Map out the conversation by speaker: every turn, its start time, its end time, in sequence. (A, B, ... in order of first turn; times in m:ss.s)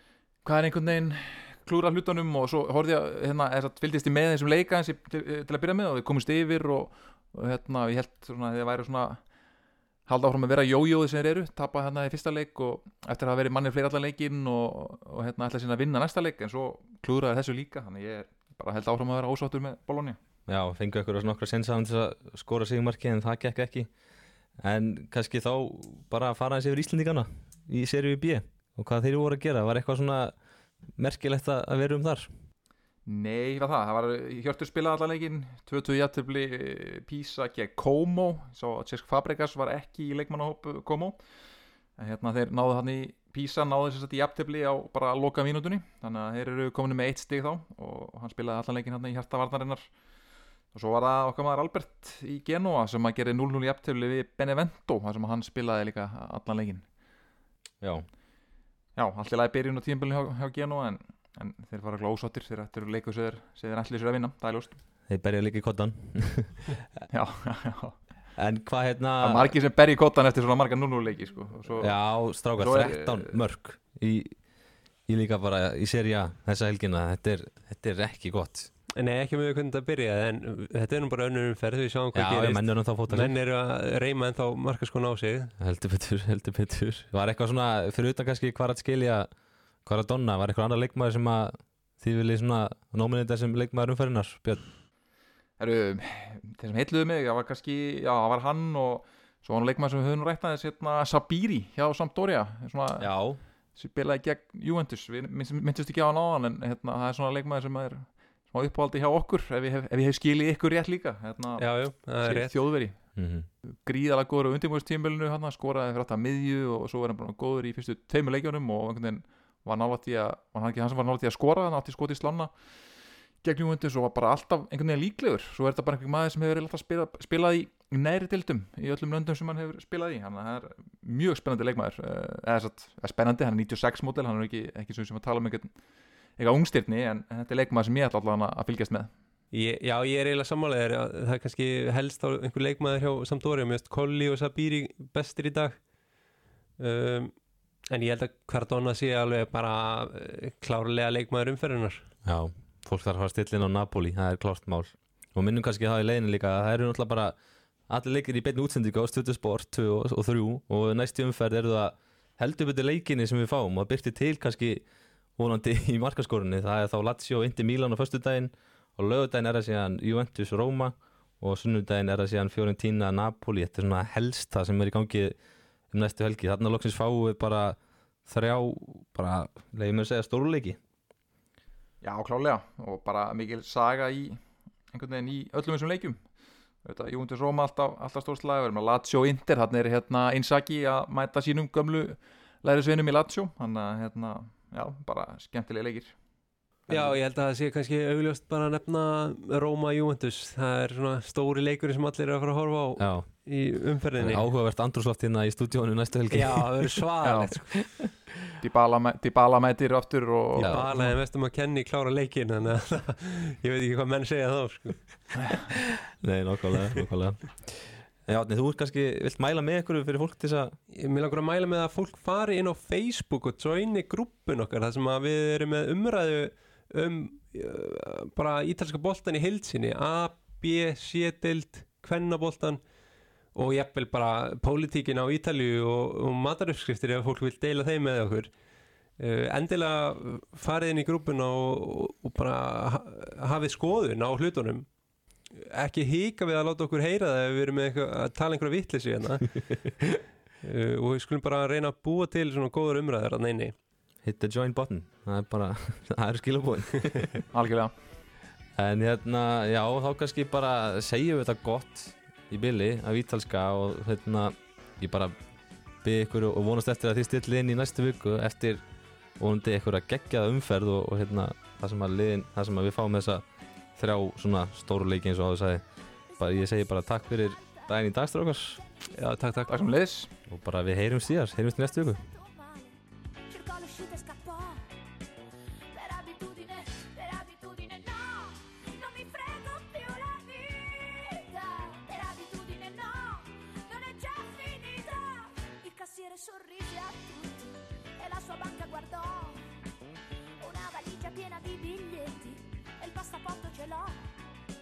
0:00.4-0:09.2 A
0:10.1-0:20.2 A
0:20.5-0:23.9 B
0:24.6-0:30.3 B
0:31.0-0:32.3 B
0:33.1-0:41.2 A
0:42.0-0:49.9 A
0:50.7-0:56.8 A
0:57.8-0:58.0 B
0:59.0-1:04.8 A
1:05.1-1:06.7 B
1:07.1-1:08.0 A
1:08.4-1:09.5 B
1:09.2-1:12.0 A
1:11.8-1:14.4 B
1:12.6-1:13.4 A
1:15.1-1:18.7 B
1:19.0-1:25.5 C
1:22.1-1:23.3 B
1:25.6-1:29.3 B
1:29.8-1:34.6 B
1:35.6-1:43.1 A
1:43.0-1:43.4 B
1:43.8-1:51.6 A
1:51.6-1:52.5 C
1:52.2-1:53.0 A
1:53.2-1:53.5 B
1:53.8-2:02.5 A
2:03.4-2:15.7 A
2:16.4-2:19.1 A
2:19.5-2:25.8 C
2:26.8-2:27.3 C
2:27.9-2:32.1 C
2:32.2-2:37.3 B
2:37.9-2:44.8 B
2:45.4-2:55.4 B
2:55.9-3:00.8 B
3:02.0-3:04.4 A
3:04.9-3:06.2 A
3:06.8-3:16.1 A
3:16.9-3:24.4 C
3:23.0-3:23.3 B
3:24.2-3:27.0 B
3:26.3-3:27.8 C
3:27.2-3:27.5 A
3:27.7-3:28.1 B
3:28.6-3:31.1 A
3:30.6-3:35.2 C
3:30.6-3:30.9 B
3:36.2-3:40.8 B
3:40.9-3:52.8 C
3:53.5-3:58.5 C
3:59.2-4:04.9 C
4:05.6-4:09.7 C
4:10.6-4:13.7 C
4:14.2-4:17.4 B
4:17.5-4:17.9 A
4:18.8-4:25.3 B
4:26.0-4:28.8 B
4:29.4-4:33.4 B
4:34.0-4:35.8 B
4:36.3-4:37.9 D
4:36.4-4:38.8 B
4:38.8-4:39.6 D
4:39.1-4:39.7 C
4:39.7-4:40.3 A
4:40.5-4:42.2 B
4:41.8-4:44.9 D
4:45.9-4:57.6 D
4:58.2-4:59.6 D
5:00.6-5:04.2 D